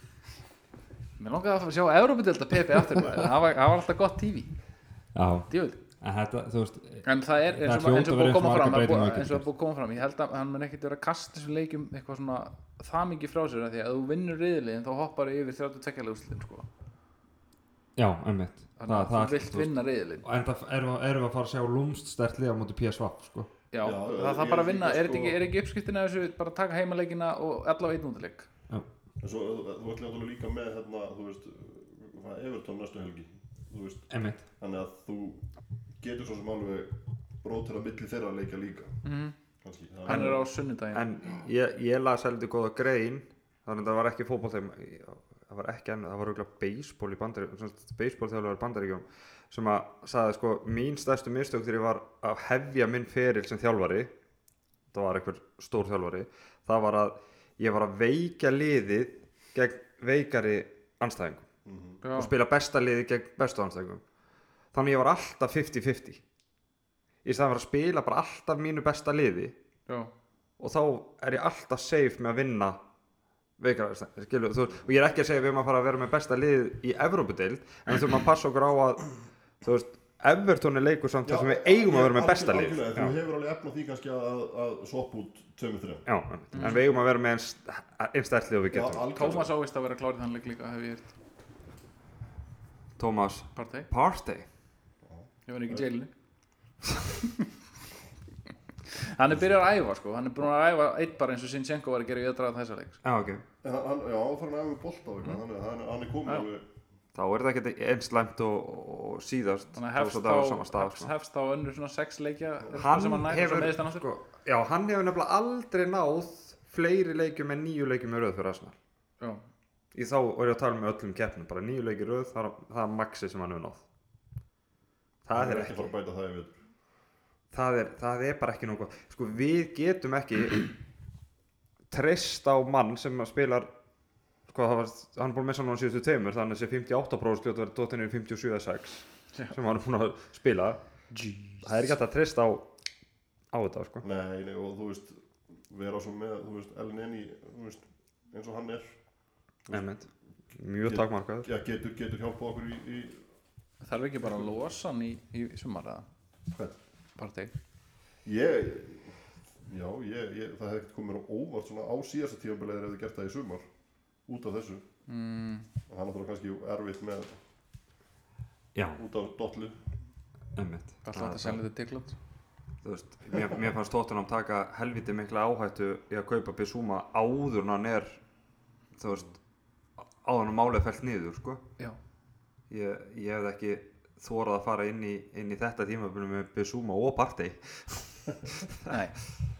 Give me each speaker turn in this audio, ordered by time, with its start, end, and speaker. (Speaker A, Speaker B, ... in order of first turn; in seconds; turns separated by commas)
Speaker A: 1.2-4.5, Speaker B: 5.1-9.4, Speaker A: 5.5-5.8, Speaker A: 7.0-16.7, Speaker B: 17.9-23.5, Speaker A: 18.8-20.2, Speaker A: 23.7-28.5, Speaker C: 23.8-25.4, Speaker C: 29.2-35.4, Speaker B: 34.1-34.4, Speaker C: 36.0-39.0, Speaker A: 39.0-39.3, Speaker C: 39.6-40.4, Speaker A: 40.0-41.0, Speaker B: 40.1-54.1, Speaker B: 54.9-61.5, Speaker C: 61.6-62.0, Speaker A: 62.0-62.3, Speaker B: 62.1-64.0, Speaker B: 64.7-66.2, Speaker B: 67.2-69.5, Speaker B: 70.6-72.8, Speaker B: 73.6-83.1, Speaker C: 81.2-86.0, Speaker B: 86.0-89.5, Speaker A: 86.5-86.8, Speaker C: 88.7-89.5, Speaker A: 89.1-91.1, Speaker B: 93.0-94.5, Speaker A: 93.5-93.9, Speaker C: 95.0-95.8, Speaker A: 95.5-96.1, Speaker A: 98.9-103.0, Speaker B: 103.0-103.4, Speaker C: 103.6-106.6, Speaker B: 107.1-111.1, Speaker A: 109.7-114.0, Speaker B: 112.7-118.8, Speaker B: 119.9-123.8, Speaker B: 125.2-125.9, Speaker C: 125.3-126.5, Speaker B: 127.5-130.7, Speaker B: 131.9-133.7, Speaker B: 134.5-140.8, Speaker A: 141.1-141.8, Speaker B: 141.6-142.7, Speaker B: 143.5-144.0, Speaker C: 144.0-149.0, Speaker B: 149.7-151.5, Speaker C: 150.8-153.2, Speaker A: 153.8-156.1, Speaker C: 156.5-156.8, Speaker A: 157.2-157.5, Speaker C: 158.2-163.6, Speaker C: 164.3-164.8, Speaker A: 165.1-165.7, Speaker C: 165.9-167.4, Speaker B: 168.7-169.0, Speaker C: 169.0-169.8, Speaker B: 170.6-171.6, Speaker A: 171.0-172.2, Speaker B: 172.8-178.2, Speaker B: 178.9-179.4, Speaker B: 180.0-181.6, Speaker B: 182.7-188.8, Speaker A: 188.9-189.2